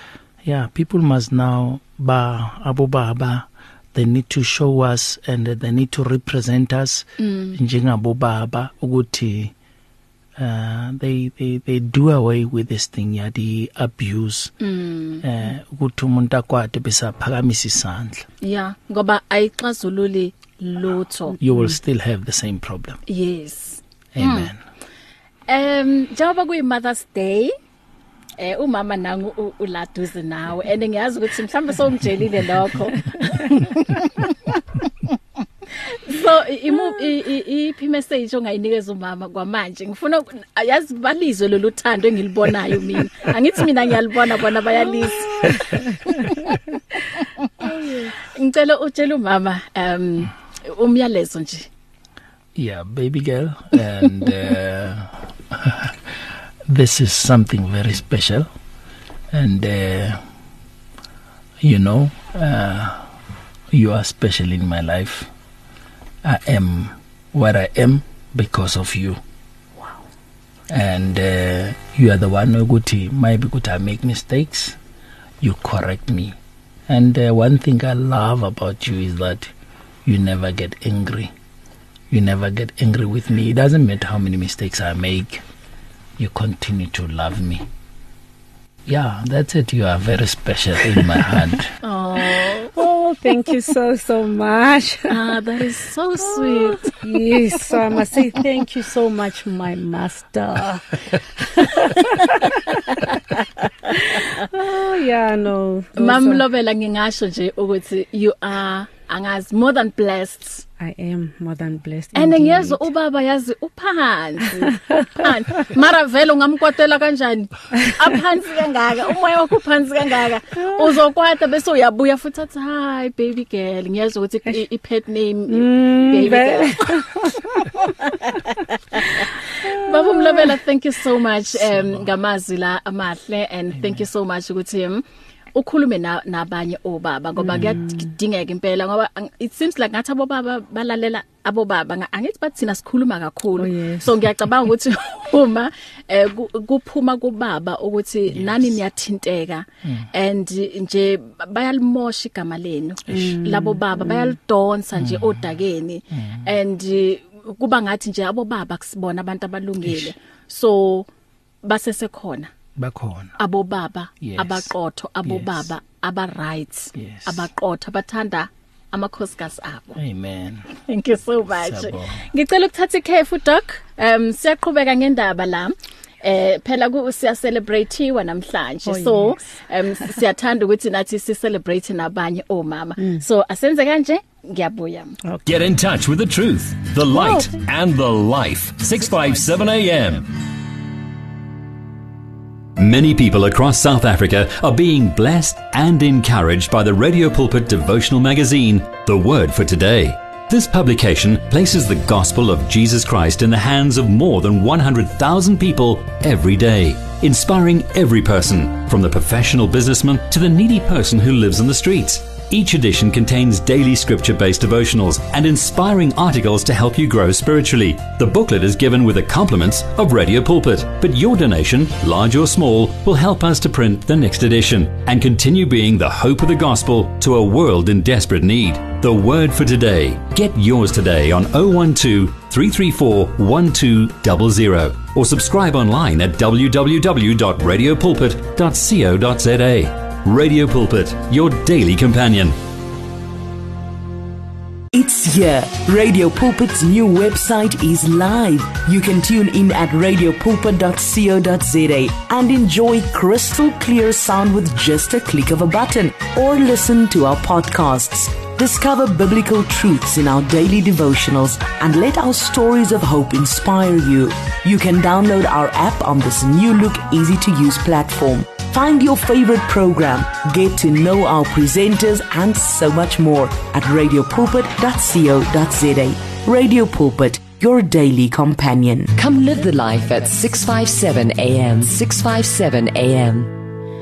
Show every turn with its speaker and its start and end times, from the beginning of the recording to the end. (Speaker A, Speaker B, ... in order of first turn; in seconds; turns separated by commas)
Speaker A: 0.4-9.5, Speaker B: 7.2-7.6, Speaker A: 10.4-14.5, Speaker B: 14.6-15.2, Speaker A: 15.2-18.3, Speaker B: 18.4-21.4, Speaker A: 21.4-23.0, Speaker C: 21.4-21.8, Speaker B: 23.1-24.5, Speaker A: 24.1-24.6, Speaker B: 25.5-27.5, Speaker B: 28.4-34.6, Speaker B: 35.8-46.5, Speaker C: 45.2-46.3, Speaker B: 47.2-47.7, Speaker C: 47.6-48.1, Speaker B: 48.2-51.7, Speaker A: 52.5-58.5, Speaker A: 59.3-60.2, Speaker A: 61.6-63.1, Speaker A: 63.7-65.3, Speaker A: 66.2-69.2, Speaker A: 70.7-74.8, Speaker A: 75.4-79.5, Speaker A: 80.0-81.3, Speaker A: 82.1-85.4, Speaker A: 86.2-87.7, Speaker A: 88.9-91.8, Speaker B: 91.8-92.7, Speaker C: 92.8-95.4, Speaker B: 95.1-96.9, Speaker C: 96.3-103.0, Speaker C: 103.9-106.5, Speaker B: 106.0-110.7, Speaker C: 110.8-112.9, Speaker B: 112.1-127.0, Speaker C: 114.7-115.3, Speaker C: 120.6-121.0, Speaker C: 125.5-128.1, Speaker B: 128.0-135.0, Speaker C: 129.2-130.6, Speaker A: 131.5-132.1, Speaker A: 133.7-134.0, Speaker B: 135.6-161.1, Speaker C: 137.4-138.1, Speaker C: 143.6-144.1, Speaker A: 148.3-148.6, Speaker C: 153.1-154.4, Speaker A: 153.1-153.4, Speaker A: 154.9-155.5, Speaker A: 156.1-156.6, Speaker A: 159.8-160.1, Speaker B: 161.6-162.5, Speaker A: 162.8-163.4, Speaker B: 163.4-170.0, Speaker A: 164.2-164.7, Speaker A: 165.2-165.7, Speaker A: 166.9-167.5, Speaker A: 169.9-170.7, Speaker B: 170.8-185.2, Speaker A: 171.5-172.3, Speaker C: 178.8-179.4, Speaker C: 185.2-185.7, Speaker D: 185.4-190.3, Speaker C: 187.1-187.5, Speaker D: 192.8-242.6, Speaker E: 244.9-279.1, Speaker F: 279.1-283.5